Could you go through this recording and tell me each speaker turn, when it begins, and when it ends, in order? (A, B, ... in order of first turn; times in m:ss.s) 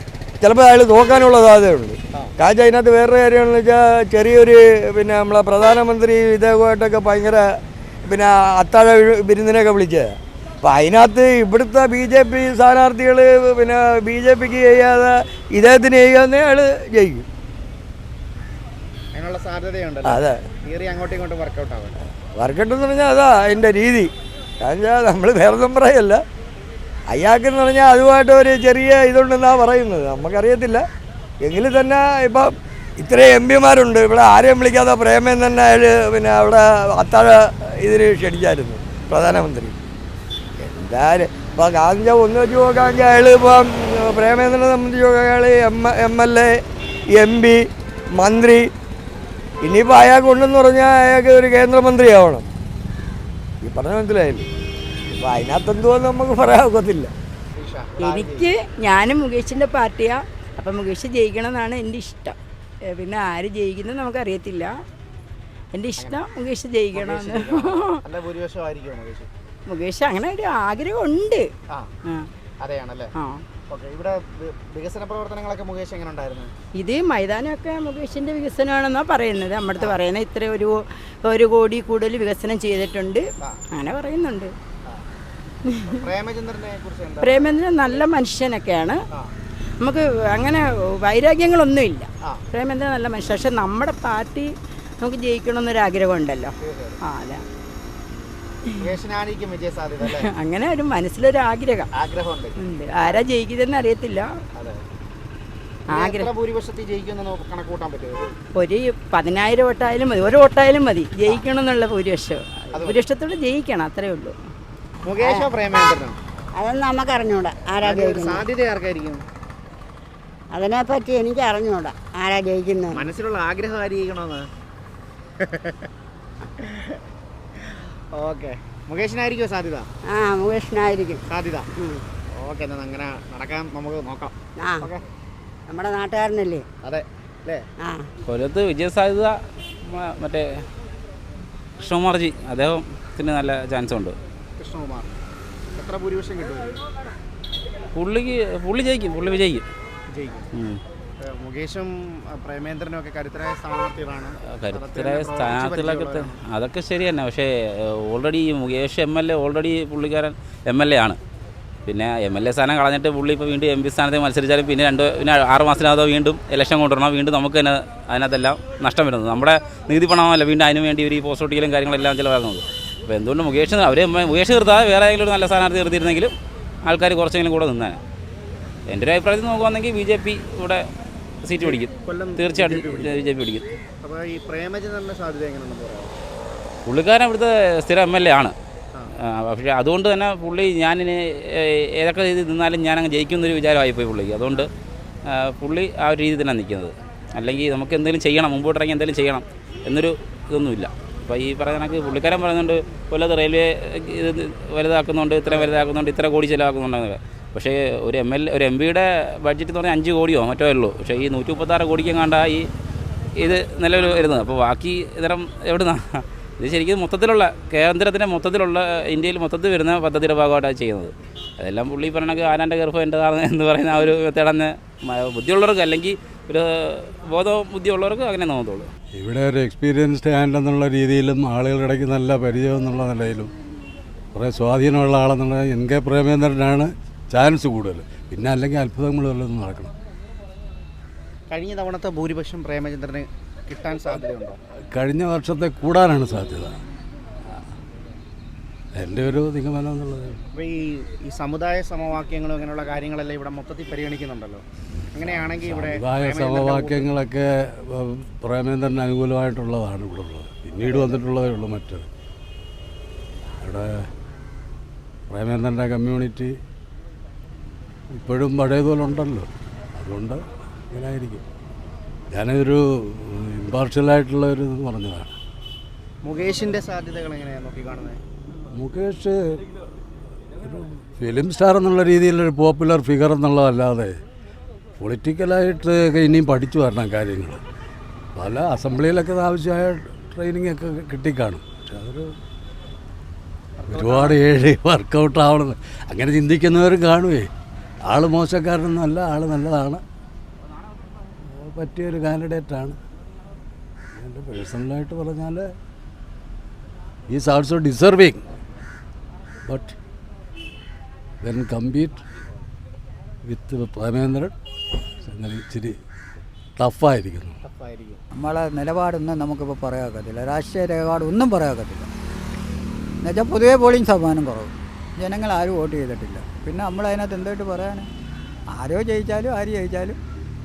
0:00.4-0:07.4 A
0:08.1-0:17.2 A
0:19.1-0:22.0 B
0:20.1-0:20.4 A
0:22.4-0:26.2 A
0:27.1-0:30.8 A
0:31.4-0:39.8 A
0:40.6-0:46.5 A
0:47.1-0:47.6 A
0:48.2-0:48.7 A
0:49.6-0:52.4 A
0:53.6-0:54.5 A
0:55.1-0:57.1 A
0:57.5-0:58.4 B
0:58.0-1:02.4 C
1:02.9-1:04.7 C
1:05.7-1:08.0 C
1:06.9-1:09.3 B
1:09.7-1:11.5 C
1:12.6-1:13.1 B
1:13.2-1:13.4 C
1:13.7-1:16.5 B
1:16.8-1:24.5 C
1:25.7-1:26.0 C
1:26.0-1:27.6 B
1:27.2-1:29.0 C
1:29.8-1:37.4 C
1:36.6-1:37.0 B
1:38.8-1:40.3 B
1:40.0-1:41.9 C
1:42.0-1:43.2 B
1:42.6-1:44.3 C
1:44.6-1:44.8 B
1:45.9-1:46.3 C
1:45.9-1:48.4 B
1:48.6-1:54.4 C
1:55.0-1:56.2 B
1:55.2-1:55.5 D
1:56.6-1:58.4 D
1:57.8-1:59.2 B
2:00.5-2:03.0 D
2:02.9-2:04.5 B
2:05.4-2:05.9 B
2:06.6-2:06.9 B
2:07.6-2:09.9 B
2:10.1-2:11.2 D
2:11.3-2:11.7 B
2:12.3-2:15.0 B
2:14.6-2:14.9 D
2:15.7-2:16.7 D
2:16.8-2:17.6 B
2:17.8-2:18.1 D
2:18.3-2:19.3 E
2:19.8-2:20.6 E
2:21.8-2:24.2 E
2:24.6-2:25.2 B
2:25.8-2:26.8 B
2:28.0-2:29.6 E
2:30.1-2:30.5 B
2:31.2-2:36.4 B
2:34.5-2:37.5 E
2:38.1-2:41.2 E
2:41.9-2:56.3 E
2:56.8-2:58.0 E
2:58.9-3:00.8 E
3:01.4-3:03.6 E
3:01.6-3:03.2 B
3:04.0-3:06.1 B
3:06.9-3:08.5 E
3:09.4-3:11.2 E
3:12.0-3:14.7 E
3:15.5-3:32.7 E
3:33.4-3:48.9 E
3:49.1-3:53.5 F
3:54.3-3:59.9 F
4:01.5-4:04.6 B
4:04.9-4:06.8 F
4:08.9-4:10.4 F
4:10.6-4:14.6 B
4:15.1-4:17.1 B
4:15.2-4:22.1 F
4:20.9-4:21.2 B
4:23.6-4:23.9 F
4:25.3-4:26.5 F
4:28.1-4:30.4 F
4:30.9-4:31.4 F
4:32.3-4:35.3 F
4:36.2-4:38.2 B
4:38.8-4:39.6 F
4:40.6-4:44.1 F
4:45.0-4:47.6 F
4:48.4-4:52.3 F
4:53.8-4:54.4 B
4:53.9-4:57.5 F
4:58.0-5:00.0 F
5:01.5-5:03.0 F
5:04.2-5:05.7 F
5:07.3-5:08.4 F
5:09.7-5:10.0 F
5:11.4-5:12.2 F
5:13.4-5:14.5 F
5:15.2-5:16.0 F
5:16.8-5:17.6 F
5:17.6-5:18.2 B
5:18.4-5:22.1 G
5:23.2-5:28.1 G
5:28.8-5:30.2 G